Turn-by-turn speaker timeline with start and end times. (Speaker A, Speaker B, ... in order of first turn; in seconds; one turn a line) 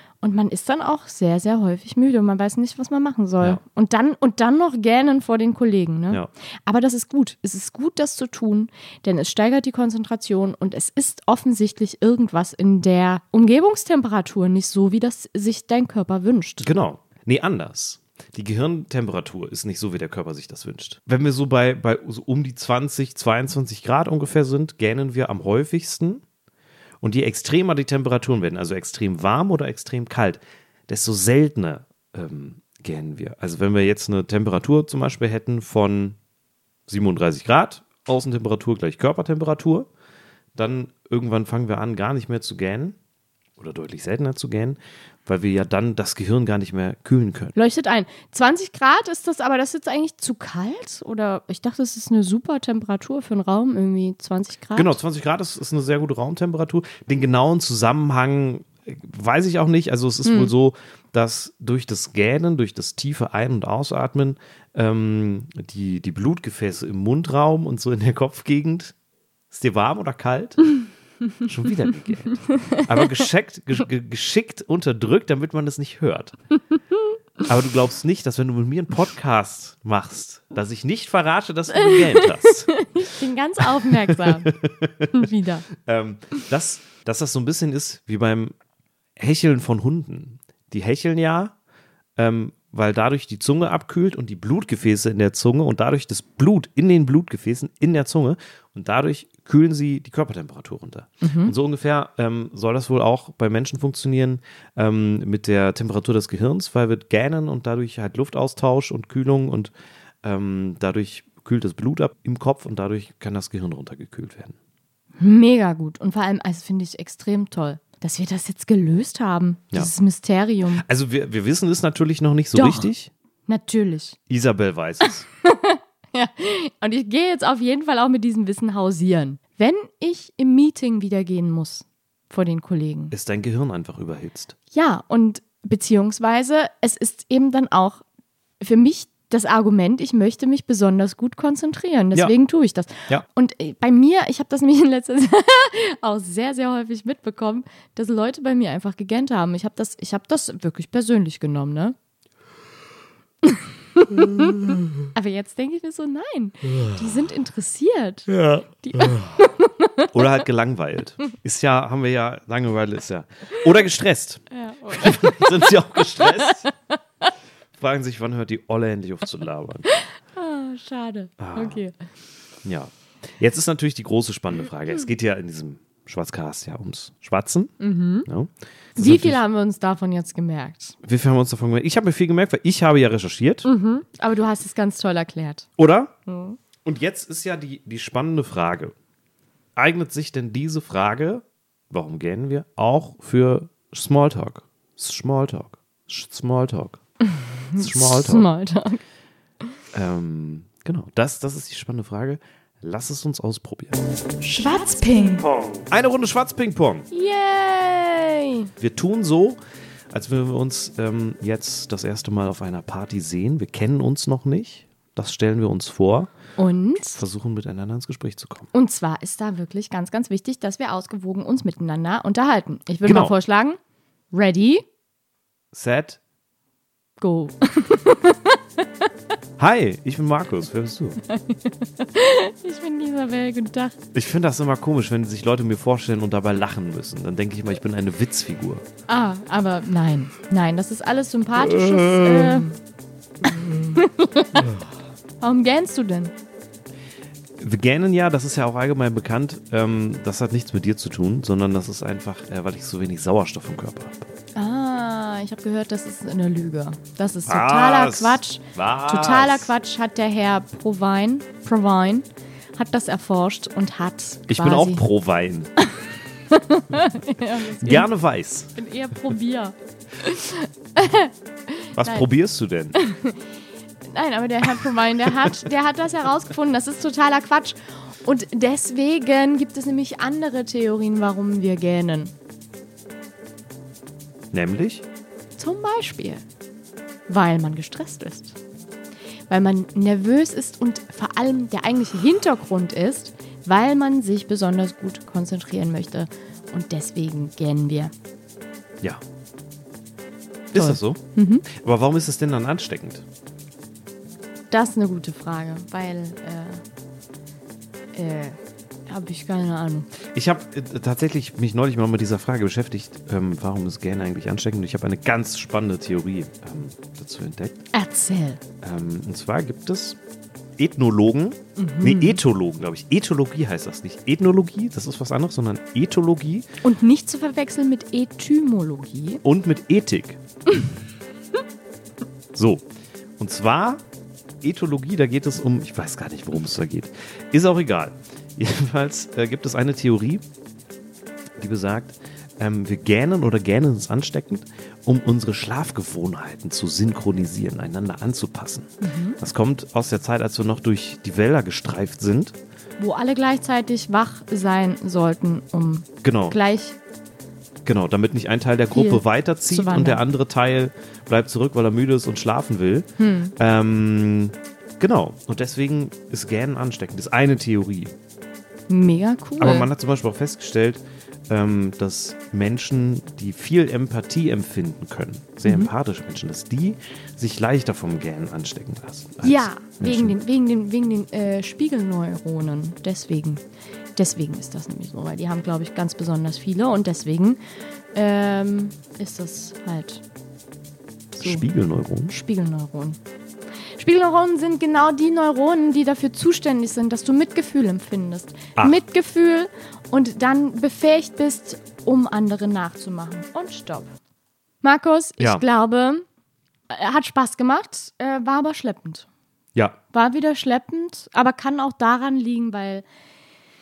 Speaker A: 0.2-16.7
Speaker B: 16.6-26.2
Speaker B: 27.0-36.2
Speaker B: 36.9-39.9
Speaker B: 40.5-43.0
Speaker B: 43.6-47.5
Speaker A: 47.5-55.0
Speaker B: 54.7-68.9
Speaker A: 60.2-60.5
Speaker B: 69.5-70.8
Speaker B: 71.4-76.3
Speaker A: 72.5-73.0
Speaker B: 77.4-82.8
Speaker A: 81.7-84.5
Speaker B: 83.6-85.2
Speaker A: 85.1-85.7
Speaker B: 85.8-88.5
Speaker B: 89.2-91.5
Speaker B: 92.2-109.7
Speaker A: 101.2-101.5
Speaker B: 110.2-114.5
Speaker A: 115.2-120.8
Speaker B: 120.8-123.1
Speaker A: 122.5-122.9
Speaker A: 123.5-124.2
Speaker B: 124.3-125.2
Speaker A: 125.4-133.1
Speaker B: 133.1-134.5
Speaker A: 134.7-138.0
Speaker A: 138.6-151.9
Speaker A: 153.4-160.1
Speaker B: 160.1-166.7
Speaker A: 164.5-166.7
Speaker B: 167.8-169.9
Speaker A: 169.9-171.9
Speaker B: 171.4-171.8
Speaker B: 172.6-177.7
Speaker A: 177.8-178.3
Speaker B: 178.3-179.4
Speaker A: 179.0-180.9
Speaker B: 181.0-183.7
Speaker A: 183.6-185.7
Speaker B: 185.8-186.1
Speaker A: 186.3-186.6
Speaker B: 186.8-188.9
Speaker B: 189.8-197.0
Speaker A: 197.3-199.0
Speaker B: 197.8-198.5
Speaker B: 199.9-204.0
Speaker A: 204.4-205.4
Speaker B: 205.4-207.1
Speaker A: 207.1-208.7
Speaker B: 208.8-209.6
Speaker B: 210.1-216.3
Speaker A: 216.6-217.2
Speaker B: 217.2-218.7
Speaker A: 218.7-223.8
Speaker B: 223.0-223.3
Speaker A: 224.3-224.8
Speaker B: 225.7-226.2
Speaker A: 227.2-228.6
Speaker B: 229.6-231.2
Speaker A: 231.3-234.0
Speaker B: 234.1-238.8
Speaker A: 239.1-242.7
Speaker B: 241.6-242.7
Speaker B: 243.5-244.0
Speaker A: 243.7-244.8
Speaker A: 245.4-246.3
Speaker B: 247.6-254.3
Speaker A: 254.6-262.2
Speaker B: 257.4-259.7
Speaker A: 262.8-265.0
Speaker B: 264.5-265.7
Speaker A: 265.8-268.1
Speaker B: 267.8-268.7
Speaker A: 268.7-272.2
Speaker B: 271.9-273.0
Speaker A: 272.9-273.4
Speaker A: 274.0-282.3
Speaker B: 284.5-285.0
Speaker A: 285.6-286.4
Speaker A: 287.3-288.6
Speaker A: 289.5-298.1
Speaker B: 300.7-303.2
Speaker A: 300.7-301.6
Speaker A: 304.7-306.8
Speaker A: 308.1-310.1
Speaker B: 310.3-317.8
Speaker A: 317.9-318.6
Speaker B: 318.8-320.2
Speaker B: 320.8-326.6
Speaker A: 321.8-322.4
Speaker A: 326.8-329.4
Speaker B: 329.4-330.4
Speaker B: 332.5-332.9
Speaker B: 333.4-334.0
Speaker B: 334.6-340.4
Speaker B: 341.6-352.6
Speaker A: 349.0-349.4
Speaker A: 353.0-356.9
Speaker B: 356.2-356.6
Speaker B: 357.8-368.1
Speaker A: 358.9-360.2
Speaker A: 363.2-363.5
Speaker A: 368.9-369.9
Speaker B: 369.6-380.4
Speaker A: 379.4-383.6
Speaker A: 384.1-387.6
Speaker A: 388.1-390.2
Speaker B: 391.3-392.3
Speaker A: 391.4-391.6
Speaker A: 392.3-393.2
Speaker A: 394.0-404.1
Speaker A: 404.8-406.2
Speaker A: 406.9-409.3
Speaker A: 410.1-413.0